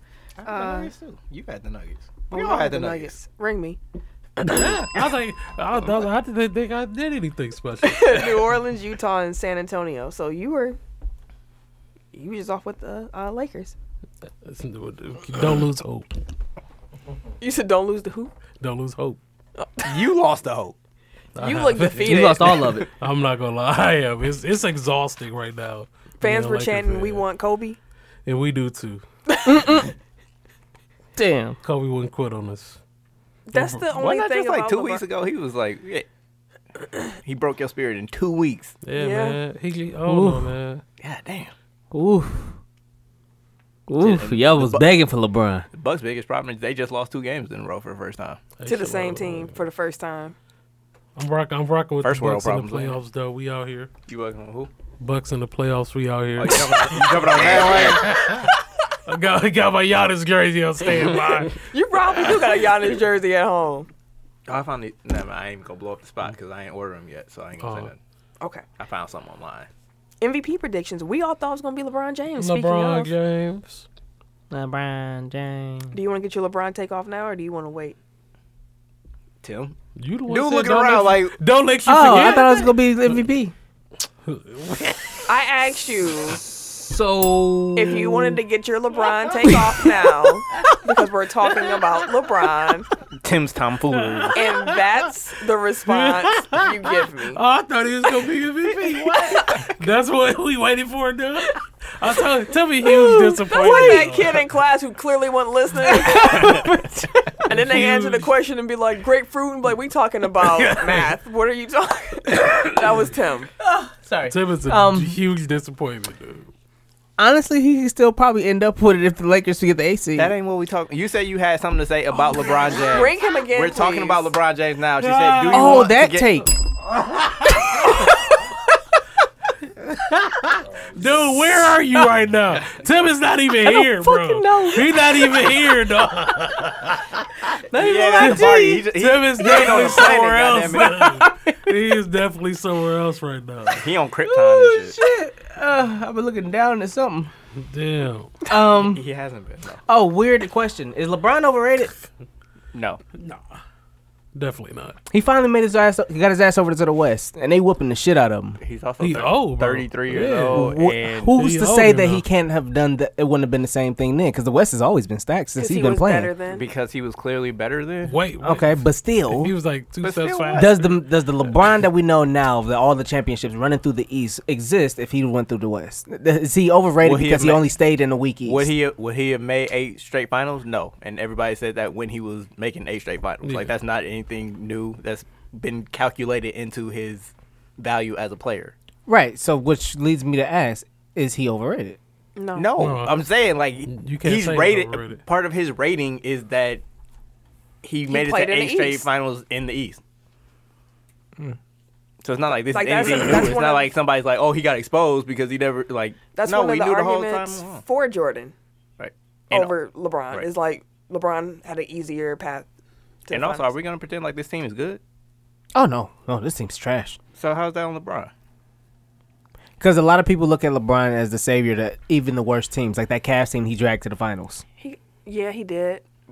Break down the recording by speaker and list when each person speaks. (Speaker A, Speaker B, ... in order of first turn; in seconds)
Speaker A: 0.4-3.1, 19.8-20.8, 34.0-36.0, 37.2-38.8, 41.0-41.5, 44.0-44.9, 45.7-48.4, 52.0-53.0, 54.1-54.7, 56.4-58.2, 64.5-68.0, 68.8-69.7, 79.4-81.4, 93.2-94.4, 120.2-126.5, 137.7-141.2, 143.7-145.0, 148.8-149.8, 152.7-153.0, 158.6-161.4, 166.5-168.2, 170.0-170.8, 177.0-177.7, 178.4-188.8, 192.5-196.8, 197.8-200.0, 202.2-207.8, 209.0-209.7, 213.3-215.0, 217.3-218.3
Speaker B: 0.4-0.9, 2.3-3.8, 7.8-10.8, 12.1-13.8, 17.4-18.3, 21.4-22.5, 26.2-27.8, 29.3-29.5, 33.5-35.0, 38.9-39.4, 48.6-50.4, 61.6-63.9, 70.2-73.1, 75.9-78.0, 85.3-86.4, 87.8-92.9, 94.3-97.4, 99.3-99.6, 103.5-106.6, 107.5-113.5, 122.7-124.3, 165.6-166.6, 192.3-192.7, 198.1-199.1, 202.7-203.9, 206.3-208.5, 209.5-212.7, 213.3-213.7, 224.8-226.0
Speaker C: 4.4-8.5, 14.4-16.1, 18.6-19.2, 21.4-22.4, 22.9-27.2, 28.2-29.0, 31.6-32.8, 33.5-33.9, 38.8-40.8, 48.6-49.5, 51.1-53.9, 55.0-61.6, 67.6-67.9, 72.4-73.9, 80.0-82.7, 84.2-85.2, 93.9-94.5, 95.9-96.7, 97.3-104.4, 107.5-108.3, 114.3-116.5, 125.0-125.9, 130.9-137.2, 138.2-143.9, 147.6-148.4, 154.3-155.0, 159.0-160.8, 161.3-162.2, 168.0-171.0, 183.4-183.7, 192.8-193.2, 193.9-195.2
Speaker D: 22.0-22.9, 29.5-29.9, 31.1-31.6, 40.0-40.5, 41.9-42.6, 43.9-45.6, 74.5-76.0, 81.8-83.5, 86.5-88.4, 89.5-90.0, 102.8-104.1, 105.8-107.5, 113.6-115.2, 117.2-120.3, 125.5-126.5, 133.6-135.5, 137.5-138.9, 140.8-141.7, 144.2-147.3, 148.5-149.1, 149.9-151.9, 155.1-158.6, 160.5-166.3, 168.4-169.5, 170.5-178.7, 189.1-192.0, 215.8-217.2, 219.8-224.6